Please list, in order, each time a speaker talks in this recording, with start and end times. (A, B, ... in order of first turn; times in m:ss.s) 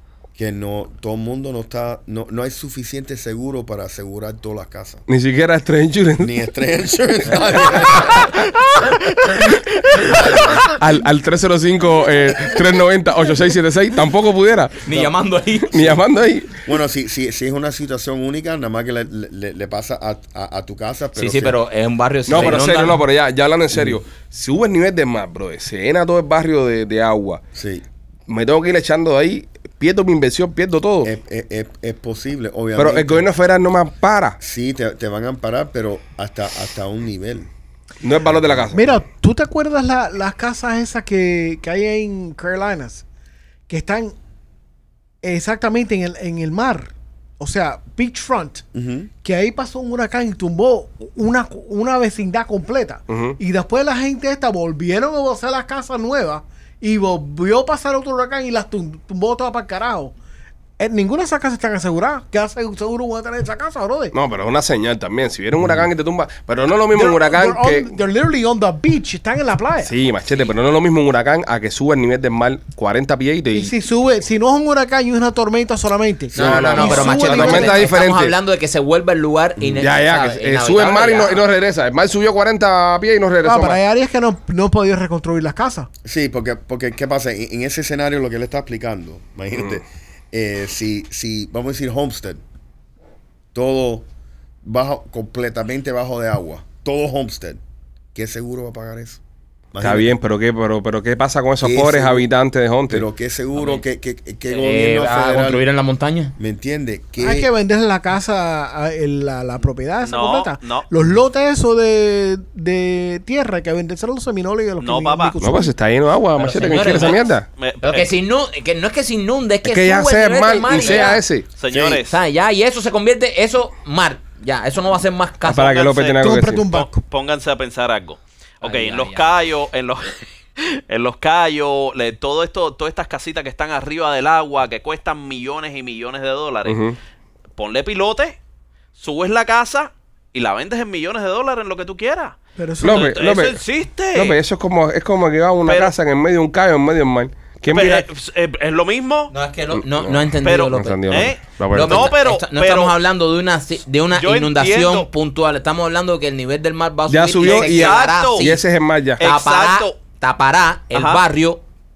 0:00.3-0:05.0 A
0:05.1-0:06.3 B
0:06.2-0:08.4 A
0:08.0-0:08.3 B
0:10.1-0:10.4 A
0:10.6-0:15.0 B
0:14.8-0:16.0 C
0:15.7-0:16.6 B
0:16.6-0:21.6 A
0:21.1-0:23.0 C
0:22.3-0:27.4 B
0:23.7-0:24.0 A
0:27.5-0:27.8 A
0:28.3-0:31.1 B
0:31.0-0:33.3 A
0:32.8-0:34.4 B
0:34.4-0:37.5 A
0:38.0-0:39.0 B
0:38.2-0:38.9 A
0:38.7-0:43.0 D
0:43.7-0:44.1 D
0:45.2-0:48.6 D
0:48.7-0:49.1 A
0:49.2-1:00.1 D
0:53.1-0:53.4 B
1:00.8-1:04.1 D
1:04.1-1:07.9 B
1:05.6-1:05.9 A
1:06.9-1:09.9 D
1:09.8-1:13.7 B
1:13.5-1:17.9 D
1:16.3-1:18.3 B
1:16.3-1:21.4 C
1:19.6-1:19.8 A
1:19.8-1:23.8 B
1:23.4-1:25.9 D
1:26.0-1:32.4 A
1:33.5-1:34.1 A
1:34.6-1:37.6 A
1:38.1-1:39.2 A
1:39.7-1:40.1 A
1:39.8-1:43.1 B
1:41.6-1:42.3 A
1:42.9-1:45.6 A
1:43.6-1:43.8 C
1:44.5-1:46.3 C
1:46.4-1:47.5 A
1:47.2-1:55.7 D
1:50.0-1:50.8 E
1:54.8-1:55.4 E
1:55.4-1:57.4 B
1:56.3-1:57.2 C
1:56.7-1:58.1 E
1:57.8-2:01.2 C
1:59.6-2:01.4 B
2:00.6-2:02.2 E
2:01.7-2:02.0 A
2:02.0-2:05.9 C
2:05.4-2:06.6 B
2:05.6-2:16.8 E
2:06.2-2:07.0 D
2:08.6-2:09.3 C
2:16.6-2:17.0 B
2:17.6-2:18.4 E
2:19.0-2:24.4 E
2:22.6-2:23.1 D
2:22.8-2:23.6 B
2:24.1-2:28.0 B
2:25.6-2:25.9 E
2:27.7-2:29.3 E
2:29.3-2:38.6 C
2:29.8-2:32.1 B
2:30.4-2:32.9 E
2:34.1-2:35.1 E
2:37.1-2:39.2 B
2:37.4-2:38.5 E
2:39.2-2:40.0 E
2:39.2-2:41.6 C
2:40.9-2:41.2 E